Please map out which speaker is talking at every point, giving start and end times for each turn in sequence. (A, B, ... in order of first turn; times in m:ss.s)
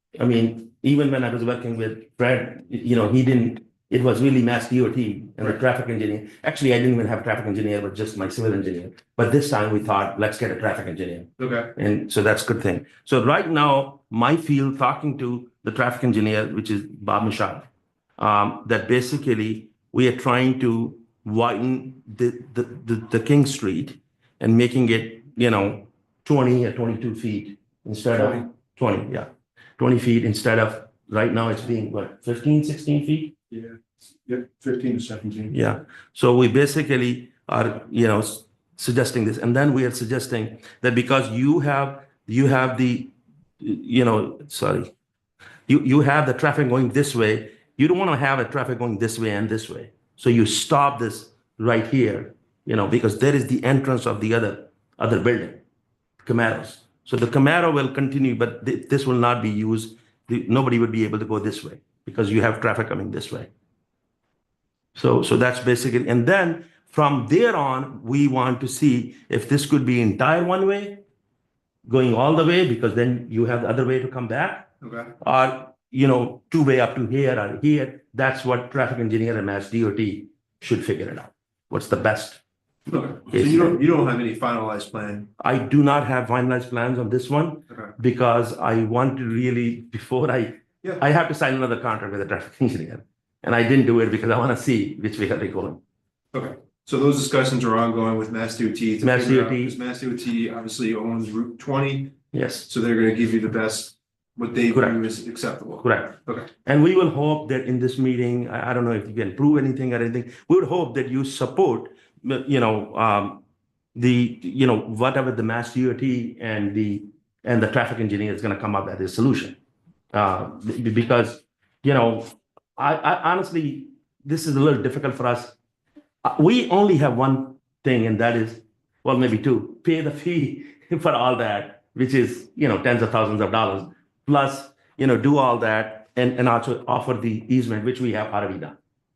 0:00.2-0:17.7 A
0:11.4-0:11.7 B
0:18.2-0:33.3 A
0:35.1-0:35.4 B
0:35.5-0:44.9 A
0:45.7-0:55.6 A
0:56.2-1:03.5 A
1:05.0-1:11.0 A
1:11.9-1:23.8 A
1:14.8-1:15.1 B
1:22.9-1:25.3 B
1:25.4-1:35.8 A
1:36.3-1:42.1 B
1:39.0-1:39.7 A
1:42.3-1:42.7 A
1:42.7-1:46.5 B
1:44.7-1:45.0 A
1:45.8-1:53.4 A
1:53.9-1:59.6 A
2:00.1-2:05.5 A
2:06.2-2:18.8 A